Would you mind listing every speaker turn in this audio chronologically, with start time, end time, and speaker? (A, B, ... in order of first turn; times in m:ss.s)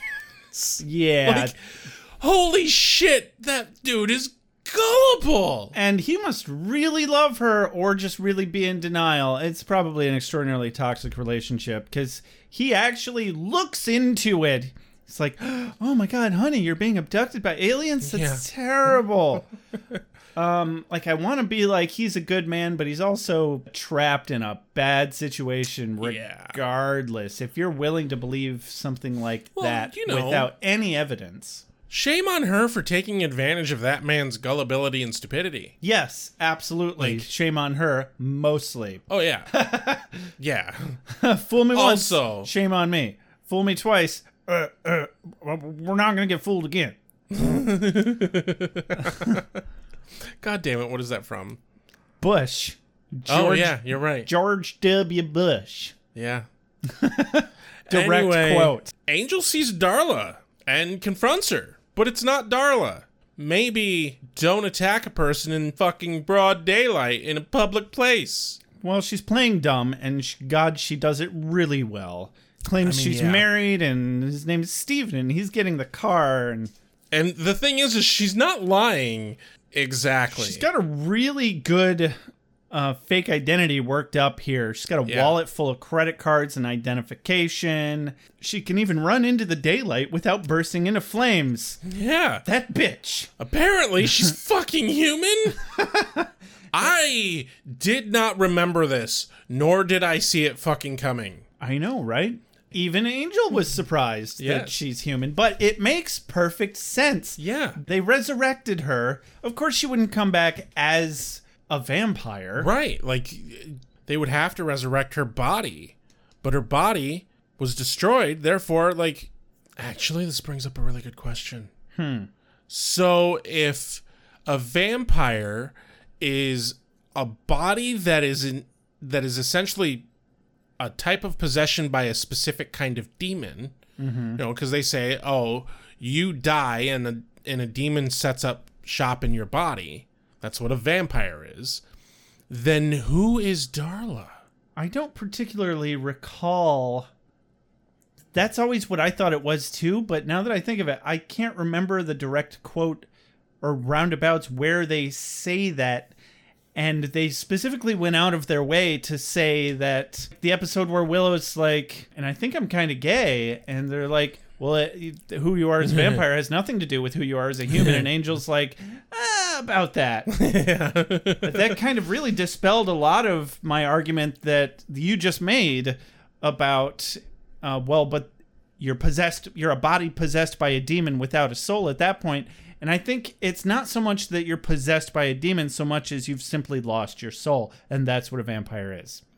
0:00.5-0:05.7 A
0:00.8-0:01.5 B
0:05.7-0:19.5 B
0:18.0-0:18.4 A
0:20.4-0:31.6 B
0:26.0-0:26.6 A
0:29.6-0:30.5 A
0:31.9-0:35.7 A
0:35.8-0:40.3 B
0:37.0-0:37.3 A
0:39.1-0:39.5 A
0:40.4-0:41.0 A
0:41.1-0:47.0 B
0:41.7-0:42.5 A
0:47.3-0:49.6 A
0:50.4-0:51.6 A
0:52.2-0:55.9 B
0:53.3-0:54.3 A
0:56.1-0:56.5 A
0:56.9-0:58.9 B
0:57.9-1:08.6 A
1:08.8-1:16.7 B
1:12.8-1:13.5 A
1:17.1-1:20.6 A
1:20.3-1:22.2 B
1:22.7-1:31.8 B
1:25.0-1:25.4 A
1:31.9-1:32.4 A
1:32.4-1:33.3 B
1:33.4-1:35.6 A
1:35.8-1:36.3 B
1:36.7-1:41.4 A
1:41.6-1:52.7 B
1:44.4-1:44.8 A
1:47.4-1:47.8 A
1:52.6-2:01.7 A
2:01.9-2:02.3 B
2:02.7-2:10.0 A
2:10.8-2:13.8 A
2:14.0-2:14.4 B
2:14.4-2:21.8 A
2:22.5-2:24.4 A
2:24.8-2:27.1 B
2:28.3-2:33.1 B
2:33.6-2:36.1 B
2:36.7-2:50.3 B
2:45.8-2:46.2 A
2:47.7-2:48.0 A
2:50.3-2:51.8 A
2:51.4-3:09.2 B